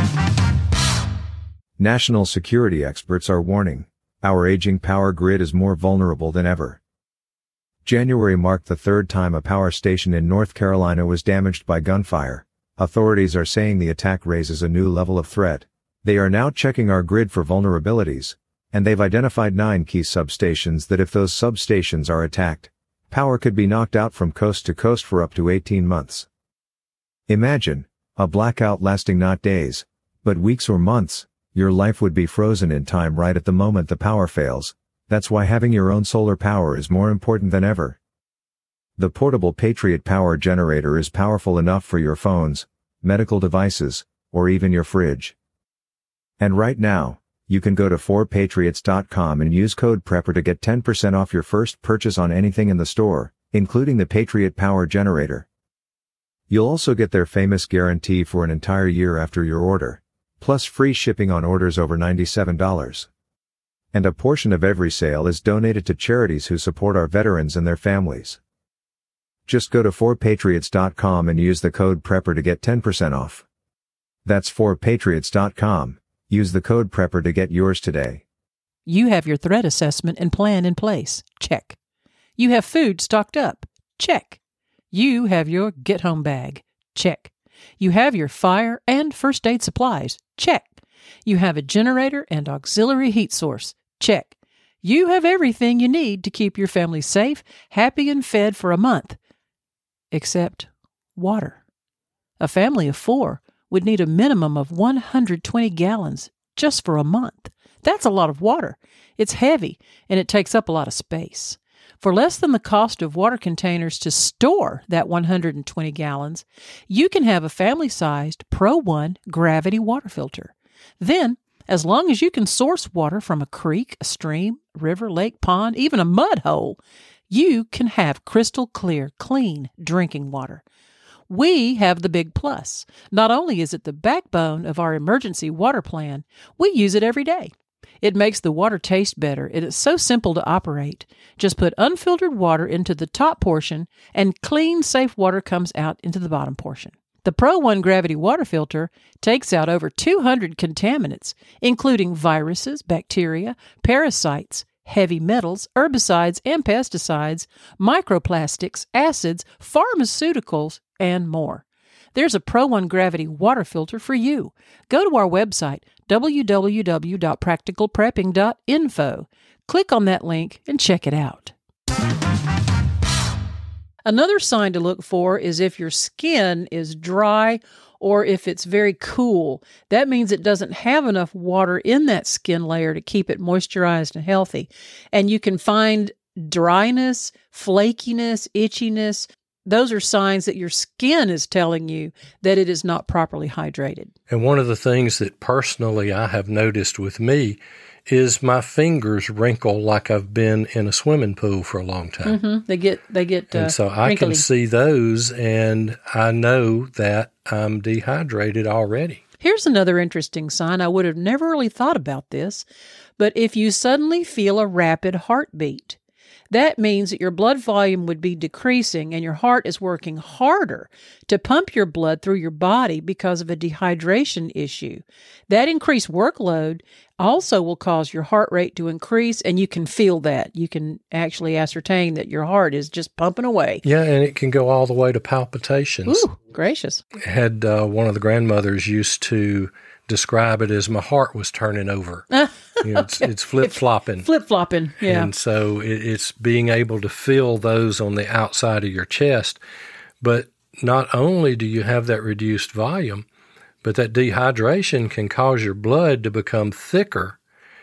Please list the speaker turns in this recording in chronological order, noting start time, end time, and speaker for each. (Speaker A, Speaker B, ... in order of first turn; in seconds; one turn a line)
Speaker A: 1.8-6.8
Speaker A: 7.8-26.3
Speaker A: 27.3-38.0
Speaker A: 39.0-45.4
Speaker A: 46.4-55.5
Speaker A: 56.5-63.1
Speaker A: 63.9-68.4
Speaker A: 69.5-73.5
Speaker A: 74.2-78.2
Speaker B: 78.9-81.8
Speaker B: 82.4-84.4
Speaker B: 84.9-99.2
Speaker B: 100.1-101.6
Speaker B: 102.4-126.8
Speaker B: 127.3-130.6
Speaker B: 131.3-171.5
Speaker B: 174.1-194.1
Speaker C: 194.3-202.4
Speaker B: 202.2-204.4
Speaker C: 203.5-209.2
Speaker B: 209.4-212.7
Speaker B: 213.2-216.0
Speaker B: 216.5-233.8
Speaker C: 233.8-236.2
Speaker B: 236.1-237.0
Speaker C: 237.2-242.3
Speaker B: 242.3-245.3
Speaker C: 242.8-244.3
Speaker C: 245.0-249.6
Speaker C: 250.2-253.2
Speaker C: 253.8-257.4